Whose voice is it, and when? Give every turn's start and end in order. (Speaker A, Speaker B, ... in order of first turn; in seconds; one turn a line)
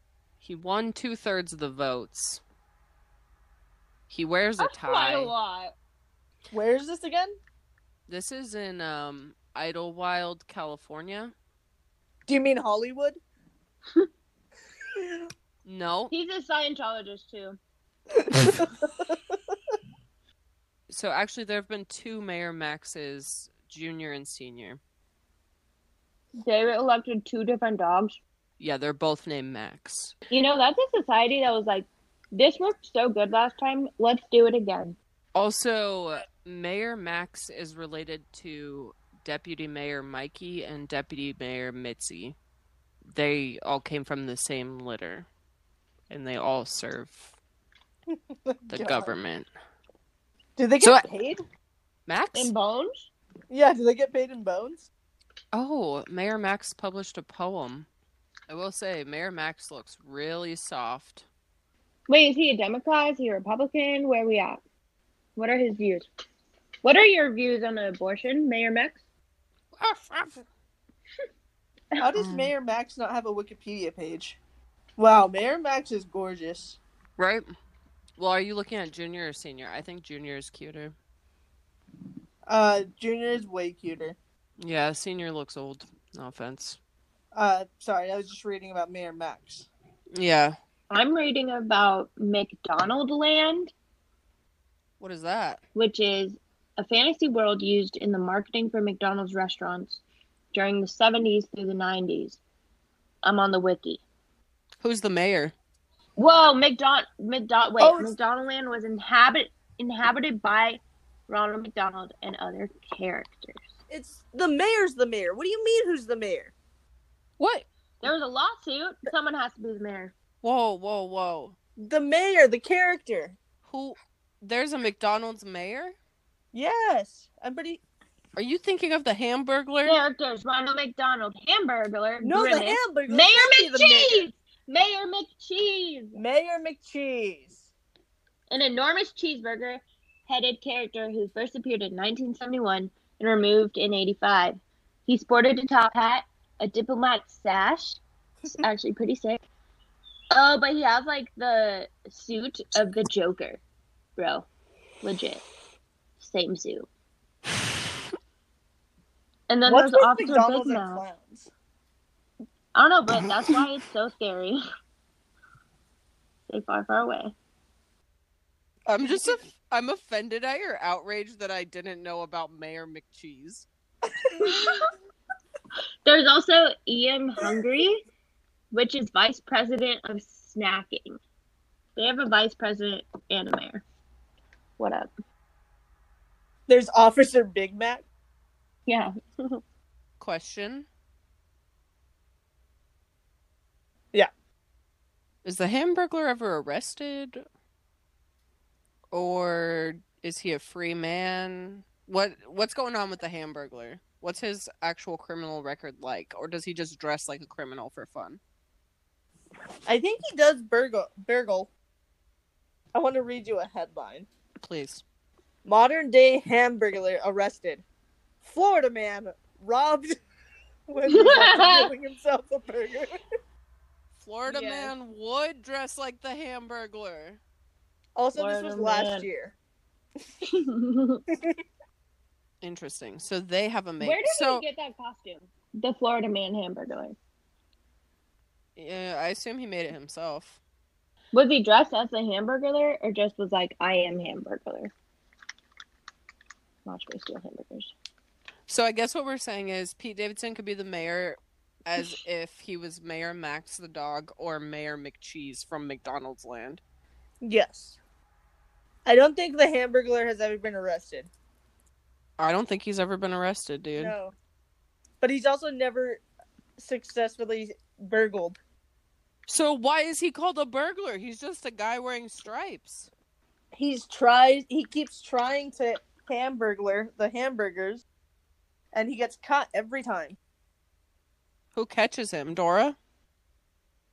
Speaker A: 0.4-2.4
Speaker A: 4.1-5.3
Speaker B: 4.6-5.7
Speaker C: 6.5-7.4
Speaker A: 8.1-11.3
Speaker C: 12.3-13.2
Speaker A: 15.6-16.1
Speaker B: 16.1-17.6
Speaker C: 18.2-19.1
Speaker A: 20.9-24.8
Speaker B: 26.4-28.2
Speaker A: 28.6-30.1
Speaker B: 30.3-35.0
Speaker A: 35.3-42.4
Speaker A: 43.1-45.3
Speaker A: 46.1-47.4
Speaker C: 48.1-49.1
Speaker A: 48.7-49.5
Speaker C: 50.6-51.4
Speaker A: 50.8-51.0
Speaker A: 52.1-52.5
Speaker B: 52.3-53.1
Speaker C: 53.5-54.9
Speaker A: 55.5-57.9
Speaker A: 58.5-61.2
Speaker B: 62.1-64.6
Speaker B: 65.3-66.1
Speaker B: 66.8-69.0
Speaker A: 69.8-70.4
Speaker C: 72.0-74.4
Speaker A: 72.2-72.5
Speaker C: 75.0-76.8
Speaker A: 77.2-77.5
Speaker A: 78.2-80.9
Speaker C: 82.5-84.2
Speaker A: 84.6-86.8
Speaker C: 87.3-89.7
Speaker A: 90.1-90.5
Speaker B: 90.9-93.7
Speaker A: 95.0-95.6
Speaker B: 95.7-100.0
Speaker B: 100.5-102.4
Speaker B: 103.2-104.0
Speaker A: 104.8-105.5
Speaker B: 106.2-113.6
Speaker C: 107.8-108.1
Speaker C: 113.9-116.5
Speaker A: 117.4-117.7
Speaker B: 118.0-120.1
Speaker A: 120.4-121.5
Speaker C: 121.8-123.4
Speaker A: 123.6-126.0
Speaker C: 126.5-127.8
Speaker A: 128.3-130.0
Speaker B: 129.8-136.2
Speaker C: 132.2-134.3
Speaker C: 136.1-137.7
Speaker B: 138.5-149.4
Speaker B: 150.3-153.6
Speaker B: 154.2-154.4
Speaker B: 155.0-155.4
Speaker B: 156.2-156.9
Speaker B: 159.5-161.0
Speaker C: 159.6-161.5
Speaker B: 162.7-164.6
Speaker B: 166.5-167.3
Speaker A: 168.9-173.7
Speaker C: 174.2-174.8
Speaker B: 174.4-174.9
Speaker B: 176.0-178.0
Speaker B: 178.7-181.2
Speaker B: 181.9-183.8
Speaker B: 184.8-185.1
Speaker C: 186.7-188.0
Speaker B: 188.9-189.6
Speaker A: 190.2-190.8
Speaker A: 195.4-197.4
Speaker A: 199.1-208.4
Speaker C: 209.8-211.7
Speaker C: 212.9-214.3
Speaker A: 214.6-215.0
Speaker C: 215.6-217.8
Speaker C: 218.4-220.2
Speaker C: 220.9-223.2
Speaker B: 221.1-221.9
Speaker A: 224.1-227.4
Speaker B: 224.4-224.9
Speaker C: 228.2-229.5
Speaker B: 228.3-229.3
Speaker B: 230.4-231.2
Speaker C: 231.3-231.6
Speaker A: 232.6-234.6
Speaker B: 234.0-237.2
Speaker A: 238.8-240.6
Speaker B: 241.3-244.9
Speaker B: 246.8-247.9
Speaker A: 248.7-256.8
Speaker C: 257.4-258.0
Speaker C: 259.0-261.3
Speaker A: 262.4-264.1
Speaker C: 263.9-264.3
Speaker C: 265.2-266.2
Speaker C: 266.8-268.6
Speaker A: 269.5-273.1
Speaker C: 273.7-278.0
Speaker C: 278.9-280.4
Speaker A: 281.7-282.9